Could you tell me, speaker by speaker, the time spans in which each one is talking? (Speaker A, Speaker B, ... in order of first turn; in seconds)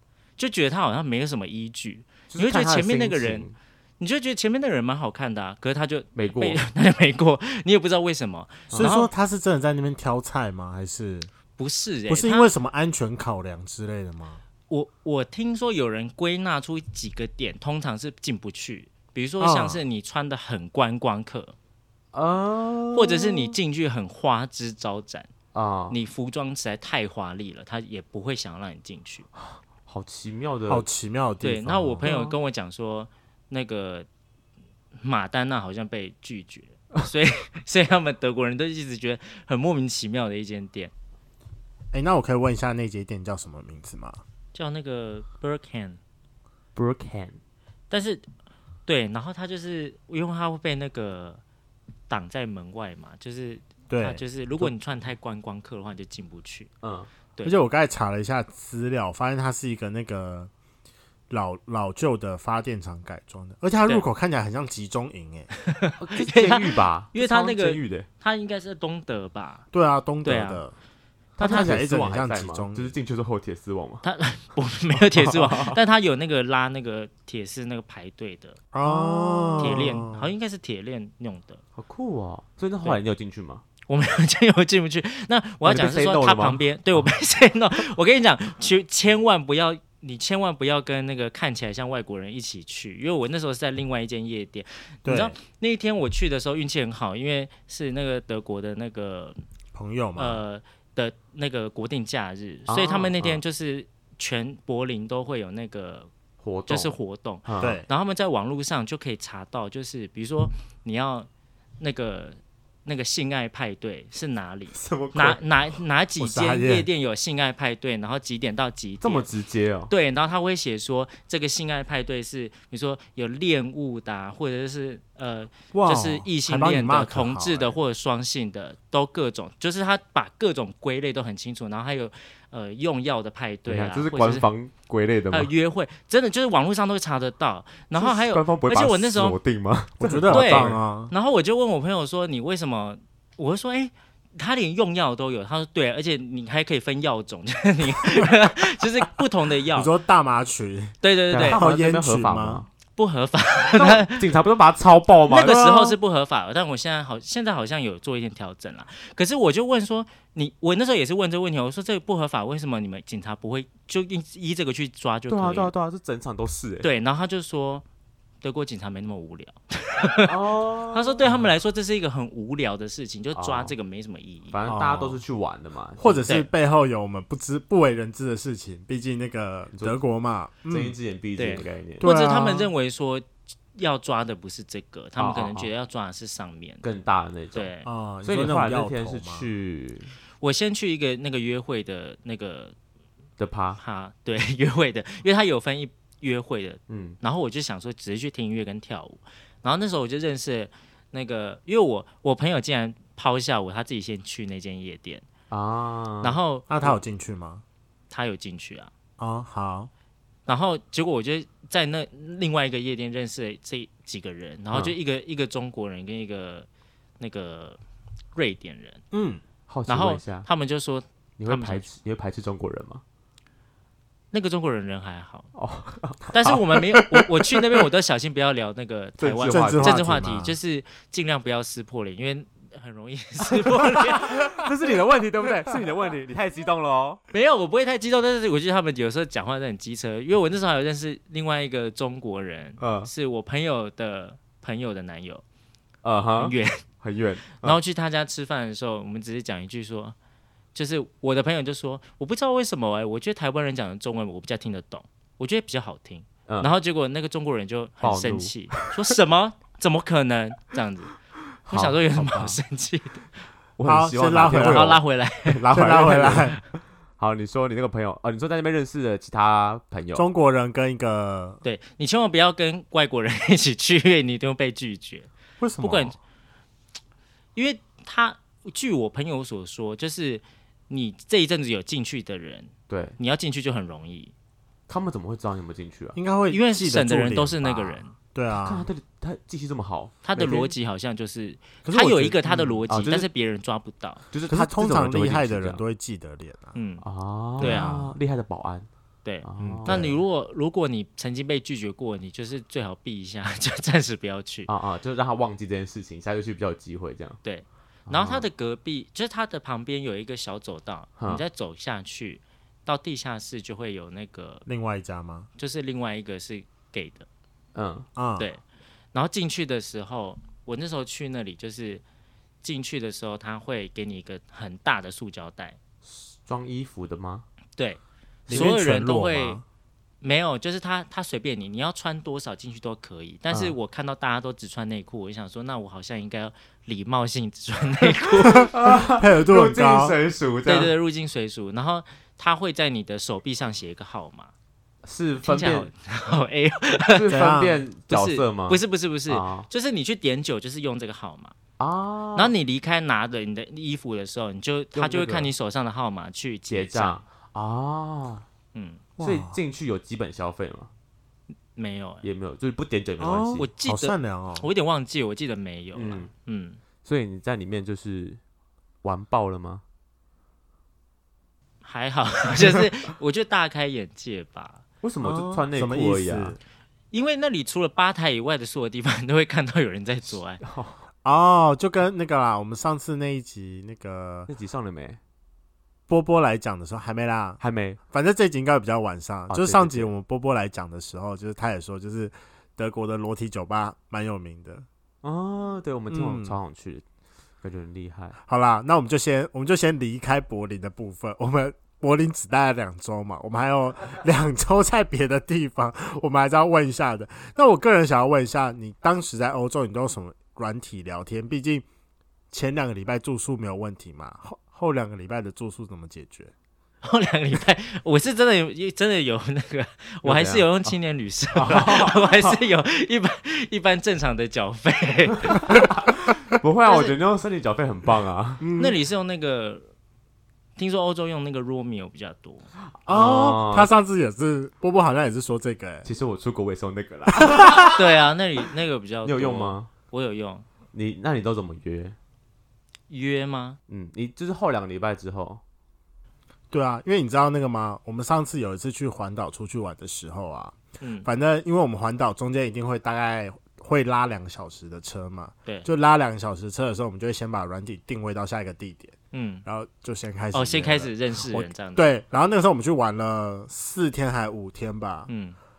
Speaker A: 0.4-3.5, 4.0-9.1, 11.6-12.5, 14.7-21.5, 22.9-25.3, 25.9-29.3, 31.4-34.1, 35.0-40.9, 44.5-46.0, 47.9-48.2, 48.9-51.4, 52.1-56.7, 65.7-69.7, 70.2-70.6, 71.4-71.7, 74.0-78.6, 79.6-81.6, 83.9-99.4, 100.2-106.1, 106.7-111.3, 111.8-119.3, 119.9-134.5, 135.3-139.4, 140.3-149.9, 151.0-151.6, 152.9-154.3, 155.3-165.7, 166.8-167.8, 168.4-170.3, 170.9-174.6, 181.4-186.8, 187.5-187.9, 190.4-192.7, 193.8-205.2, 206.2-206.9, 208.1-208.9, 210.5-216.7, 217.2-217.8, 218.3-219.0, 219.9-221.9, 224.3-225.5, 226.3-234.5, 237.3-245.4, 246.4-246.8, 247.6-250.2, 250.7-261.1, 261.7-263.2, 264.5-265.6, 271.6-276.2, 277.5-284.3, 286.5-288.1, 290.2-294.2, 296.7-297.0, 297.6-298.0, 299.2-304.7, 307.4-314.6, 315.6-317.3, 319.1-322.0, 322.6-325.8, 327.8-329.6, 330.2-338.7, 340.6-344.5, 345.4-347.3, 348.1-351.5, 352.4-357.2, 358.7-359.0, 361.8-362.2, 363.6-366.8, 371.8-374.8, 377.1-380.6, 417.0-425.8, 426.9-427.1, 428.8-429.9, 430.8-432.7, 437.6-440.6, 443.1-443.8, 451.0-451.3, 459.3-459.6, 460.5-462.1, 465.3-465.6
Speaker B: 2.3-3.5, 6.1-6.6, 22.1-23.6, 25.5-26.0, 29.5-30.9, 32.0-32.3, 46.7-47.4, 56.8-57.1, 66.0-68.1, 71.4-74.0, 74.9-75.8, 78.8-80.0, 81.8-83.6, 85.6-87.1, 102.7-103.4, 106.4-106.9, 107.5-107.8, 114.7-115.4, 119.0-119.9, 133.7-135.5, 137.9-140.8, 151.3-152.7, 153.8-155.9, 165.3-166.9, 170.2-171.2, 173.3-173.7, 174.5-176.3, 180.7-182.1, 185.2-185.7, 186.8-187.7, 188.2-190.1, 193.4-193.8, 196.9-197.2, 205.5-206.4, 219.7-220.5, 221.4-223.0, 225.5-227.2, 229.2-230.0, 233.9-237.2, 242.8-243.1, 246.0-247.8, 256.5-256.7, 258.0-259.1, 261.6-262.5, 263.8-270.2, 282.9-283.2, 284.9-286.2, 288.5-290.2, 292.9-293.3, 294.3-295.8, 297.0-298.9, 299.4-300.2, 304.7-307.4, 308.1-308.5, 311.2-311.4, 317.7-318.1, 326.0-327.4, 328.5-328.8, 333.5-333.7, 338.4-340.9, 345.0-345.9, 347.1-349.7, 351.8-352.5, 354.9-355.5, 356.7-358.4, 359.2-360.9, 362.2-363.7, 365.9-366.3, 367.0-368.4, 369.0-369.8, 375.0-376.6, 380.6-381.0, 384.5-385.2, 387.6-388.0, 389.5-390.1, 395.2-397.0, 397.6-398.4, 420.2-420.9, 421.5-422.6, 425.5-428.6, 432.9-433.9, 436.0-438.0, 439.2-439.9, 440.9-442.1, 443.9-445.6
Speaker C: 8.7-11.3, 12.1-14.4, 19.4-19.8, 30.7-32.1, 41.9-44.2, 53.9-54.7, 57.4-60.5, 61.3-65.5, 69.7-70.7, 71.4-73.0, 78.7-80.3, 95.0-95.3, 99.7-100.4, 107.6-107.9, 116.2-116.9, 125.7-127.8, 140.0-141.1, 149.7-150.9, 151.4-152.6, 174.6-175.2, 176.0-180.9, 182.0-182.7, 187.8-189.5, 206.7-207.6, 209.2-209.9, 219.1-219.4, 229.5-230.6, 263.8-265.0, 265.7-266.6, 270.1-271.6, 275.6-276.1, 286.1-288.9, 290.4-290.7, 291.8-292.8, 294.5-296.7, 297.6-298.1, 299.8-300.2, 314.6-315.5, 318.1-318.5, 328.5-329.6, 338.6-340.1, 347.3-347.8, 359.2-359.6, 363.2-364.6, 375.2-376.6, 381.2-384.5, 386.1-387.6, 388.1-394.9, 396.1-396.5, 398.4-411.9, 412.5-416.5, 428.6-429.0, 433.1-436.1, 437.5-437.9, 446.7-465.3